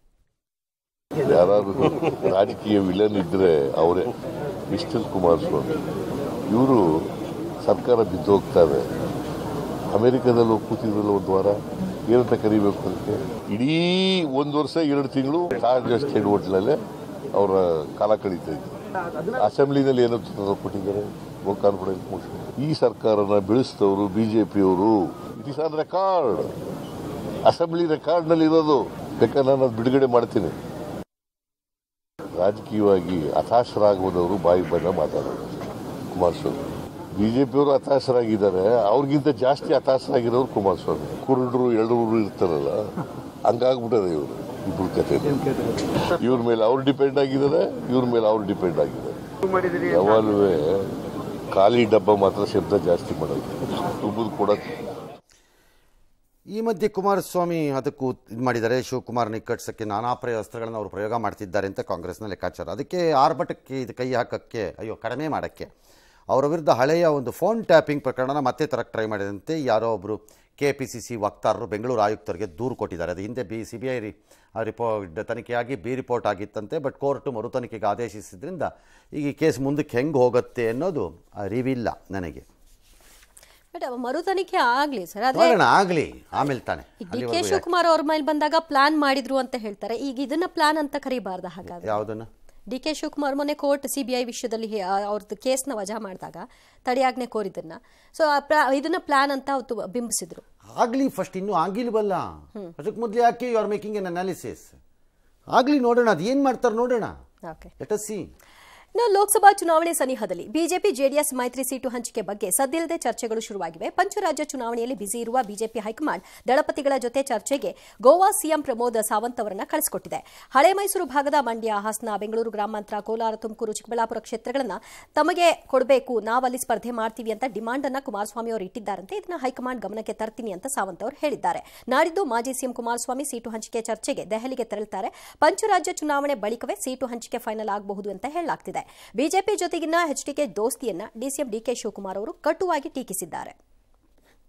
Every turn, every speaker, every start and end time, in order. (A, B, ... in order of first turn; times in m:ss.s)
0:01.2-0:04.1 A
0:04.7-0:05.8 A
0:06.5-0:06.8 A
0:07.6-0:08.9 A
0:09.9-0:11.6 A
0:12.1-0:16.8 A
0:17.3-0:18.7 A
0:19.3-0:26.6 A
0:27.5-0:30.6 A
0:32.4-0:35.5 A
0:36.1-0:36.6 A
0:37.2-0:42.9 A
0:43.4-0:45.5 A
0:46.0-0:49.2 A
0:49.7-0:50.9 A
0:51.5-0:54.7 A
0:56.5-1:05.7 B
1:06.3-1:22.4 B
1:23.7-1:25.6 C
1:25.3-1:27.6 B
1:27.0-1:32.0 C
1:31.7-1:32.3 B
1:32.7-1:40.4 C
1:40.8-1:44.8 B
1:45.5-1:47.1 B
1:47.8-1:48.3 B
1:49.0-2:23.6 C